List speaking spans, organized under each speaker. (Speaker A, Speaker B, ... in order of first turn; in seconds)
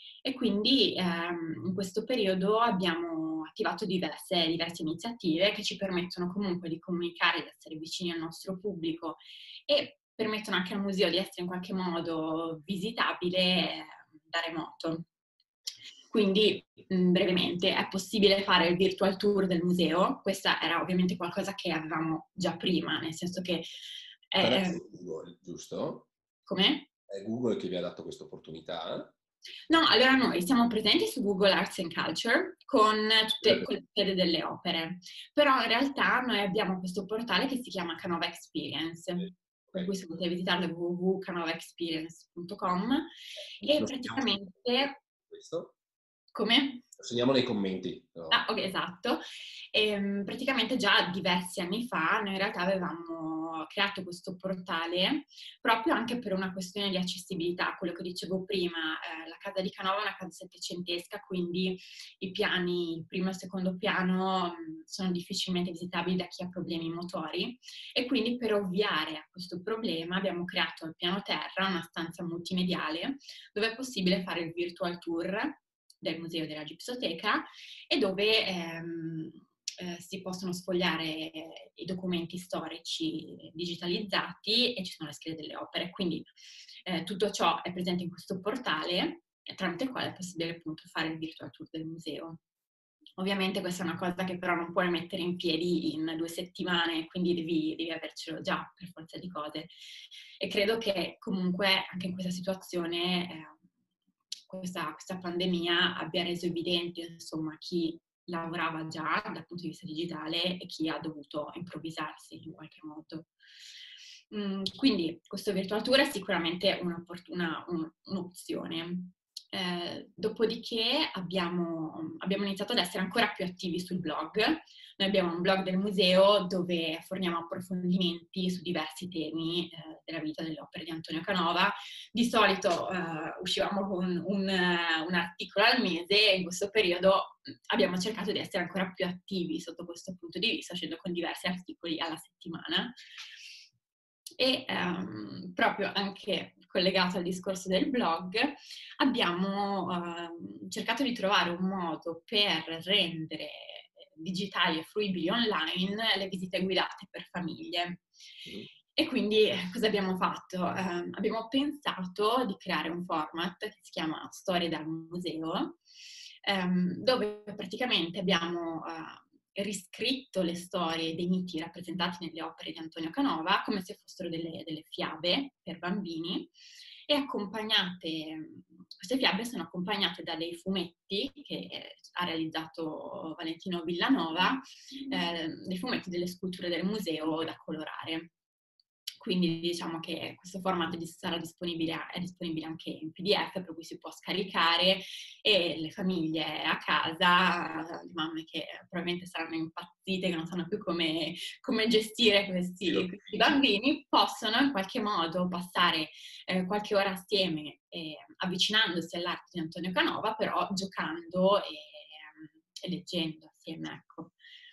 Speaker A: 0.2-15.1, 16.1-23.7, 24.3-24.8, 26.5-26.9, 29.7-45.0, 46.3-46.9, 48.3-49.2, 49.7-86.3, 86.9-92.4, 93.2-99.7, 100.4-103.6, 104.5-113.3, 114.3-142.9, 144.4-158.1, 158.9-165.8, 166.4-176.5, 177.1-188.3, 189.2-214.3
Speaker B: 24.4-26.1, 27.1-29.1, 33.4-33.7, 43.6-45.7, 47.0-48.4, 202.9-203.5